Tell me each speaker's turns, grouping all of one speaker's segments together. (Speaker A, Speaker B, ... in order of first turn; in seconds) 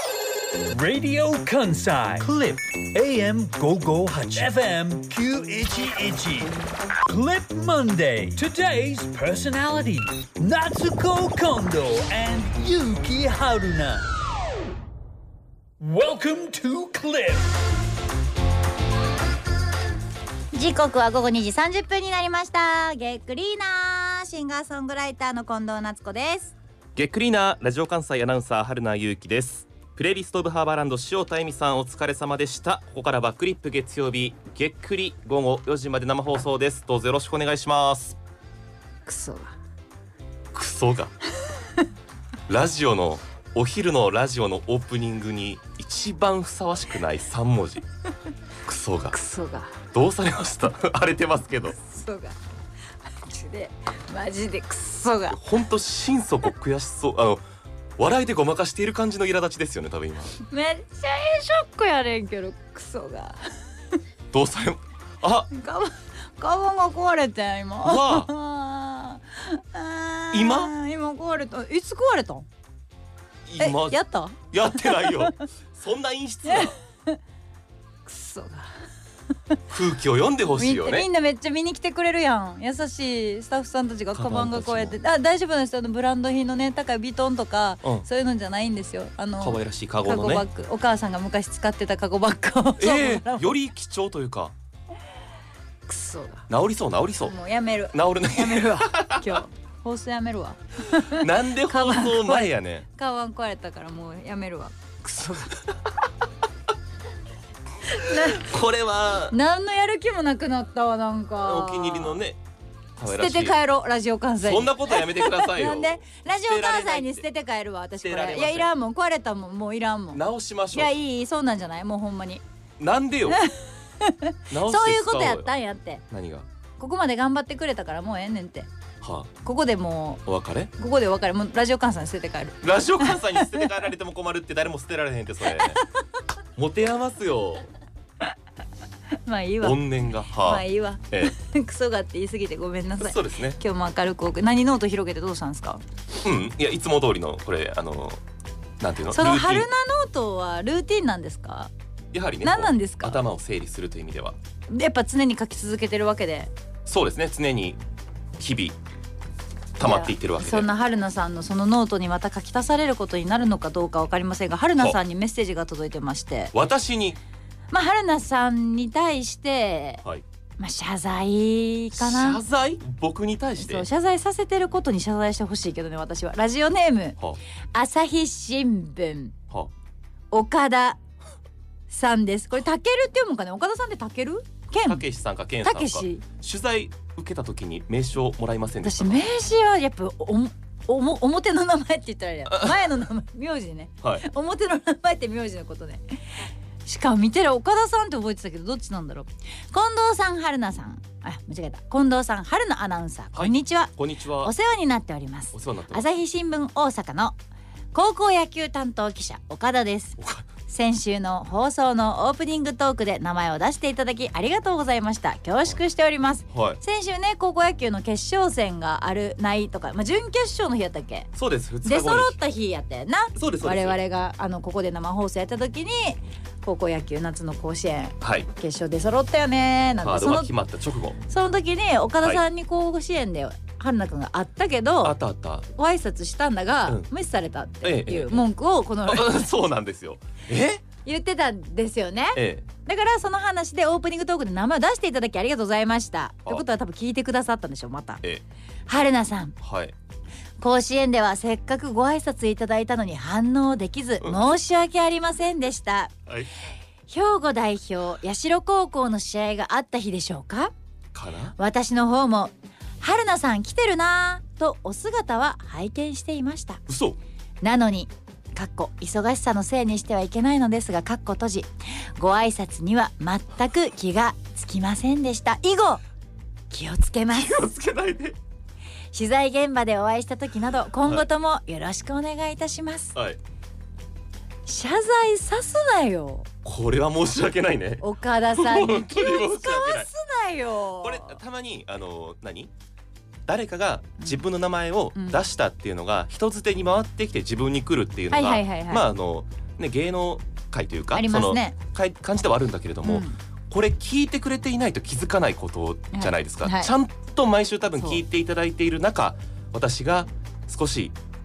Speaker A: 0.7-6.5, 7.1-14.0, 15.8-17.5
Speaker B: 20.5-26.5, 39.0-39.5, 49.1-49.7, 51.8-52.4, 53.1-55.4, 60.4-63.4, 65.5-72.5, 73.6-75.3, 76.5-77.2, 78.0-78.7, 80.6-93.5, 95.9-96.5, 97.2-105.6, 107.9-108.5, 109.3-112.2, 113.1-122.4, 123.3-126.0, 126.8-128.7, 129.4-130.2, 130.8-133.7, 135.5-135.8, 139.2-145.8, 149.1-151.7, 152.4-153.2, 154.7-156.5, 159.8-166.5, 167.7-170.0, 170.6-172.4, 173.6-177.2, 177.7-179.3, 180.3-181.0, 181.9-185.0, 185.6-186.2, 188.8-207.3, 207.9-221.3, 221.8-230.5, 231.3-235.2, 235.7-239.5, 241.0-248.2, 248.9-249.6, 250.6-256.1, 257.1-260.7, 261.6-266.8, 267.6-276.0, 276.7-277.6, 279.1-283.1, 284.6-286.5, 288.0-291.4, 295.1-295.4, 298.3-299.1, 301.1-301.8, 303.0-303.4, 306.1-306.9
Speaker C: 26.9-38.2, 40.5-41.1, 42.5-47.8, 48.6-49.1, 49.9-51.8, 55.3-57.4, 58.0-60.3, 64.3-65.5, 67.8-68.3, 70.3-70.7, 73.5-76.7, 79.7-81.0, 84.1-85.0, 89.4-90.5, 92.8-94.5, 96.5-97.3, 97.9-99.4, 100.9-102.9, 108.1-109.3, 111.4-112.4, 113.0-113.6, 114.4-117.2, 118.0-118.7, 120.1-120.9, 122.8-123.4, 124.5-125.5, 126.1-126.5, 129.0-129.3, 130.2-130.7, 132.6-135.8, 136.6-137.7, 139.6-141.3, 143.0-143.6, 146.2-148.2, 148.8-149.7, 152.1-154.4, 156.8-157.8, 158.4-158.8, 159.8-160.7, 166.5-167.2, 171.9-173.9, 184.8-189.3, 192.5-192.9, 203.3-204.5, 205.5-206.0, 210.2-210.5, 216.5-216.8, 221.3-222.4, 223.3-224.0, 228.2-228.5, 230.0-231.2, 235.0-235.7, 237.8-238.4, 239.1-240.8, 242.3-242.7, 249.6-249.9, 254.2-254.5, 261.1-261.5, 266.9-267.2, 277.3-278.4, 286.6-290.1, 291.0-292.7, 293.5-311.1